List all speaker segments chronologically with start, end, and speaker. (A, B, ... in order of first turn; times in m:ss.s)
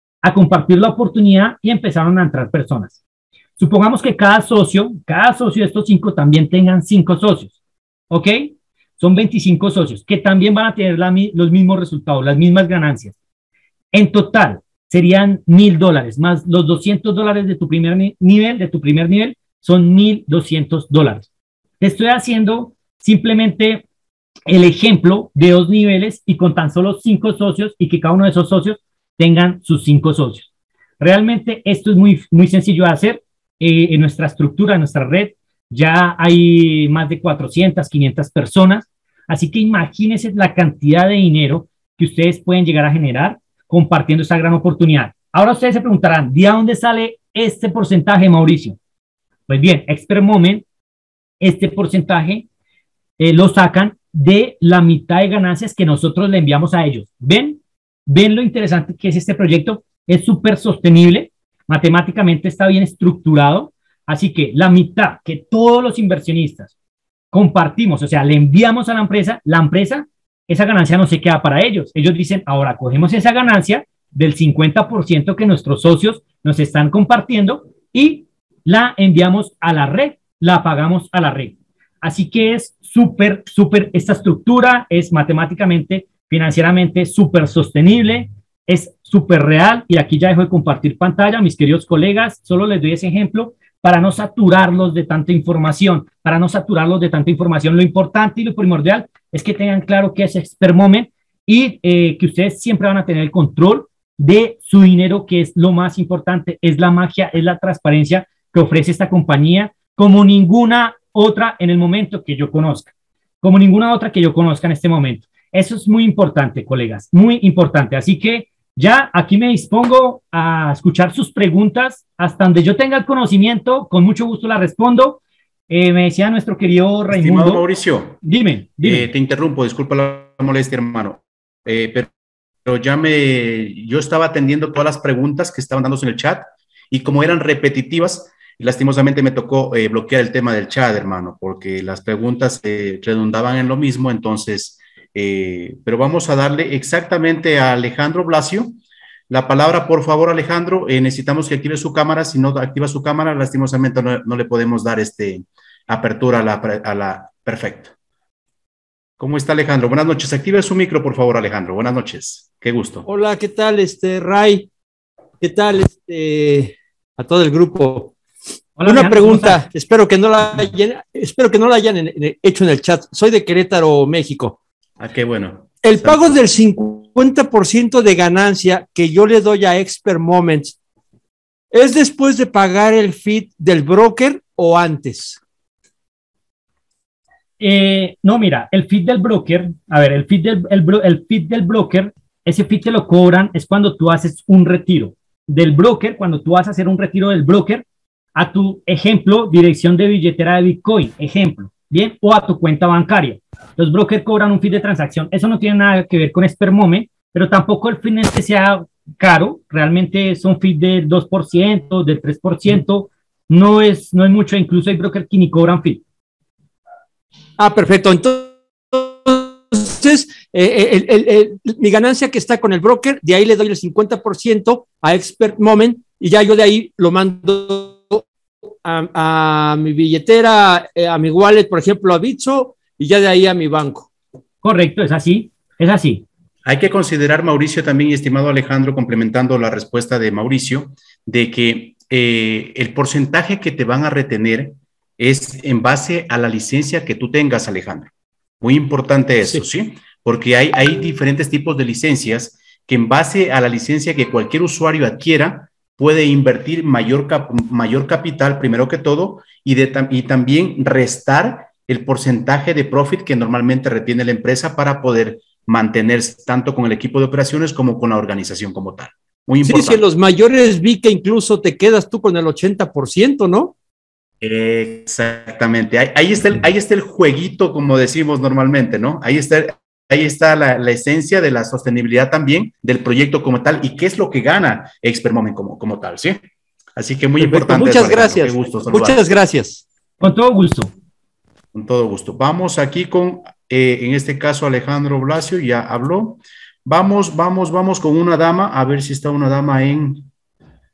0:00.2-0:03.0 A
0:03.6-0:07.5 A
0:08.1-0:13.1 A
0:13.9-0:21.3 A
0:21.8-0:23.8 A
0:24.5-0:30.5 A
0:31.0-0:48.8 A
0:49.5-0:50.6 A
0:51.4-0:52.4 A
0:53.2-1:06.7 A
1:07.3-1:52.9 A
1:53.4-2:07.6 A
2:07.1-2:08.2 B
2:08.2-2:09.1 A
2:08.8-2:12.1 B
2:12.6-2:28.8 B
2:29.3-2:37.9 B
2:39.2-2:43.0 B
2:43.0-2:44.7 C
2:45.4-2:48.1 C
2:48.8-2:49.6 A
2:48.8-2:54.6 C
2:55.0-2:56.2 B
2:55.8-3:00.7 C
3:01.7-3:05.4 C
3:07.6-3:17.8 A
3:18.4-3:36.0 A
3:37.6-3:48.2 C
3:48.8-3:54.1 C
3:54.6-3:56.2 A
3:56.6-4:08.1 B
4:08.6-4:30.0 B
4:29.6-4:33.7 C
4:34.4-4:46.4 B
4:47.0-4:49.2 B
4:47.4-4:49.8 C
4:50.2-4:50.9 A
4:51.7-5:00.3 B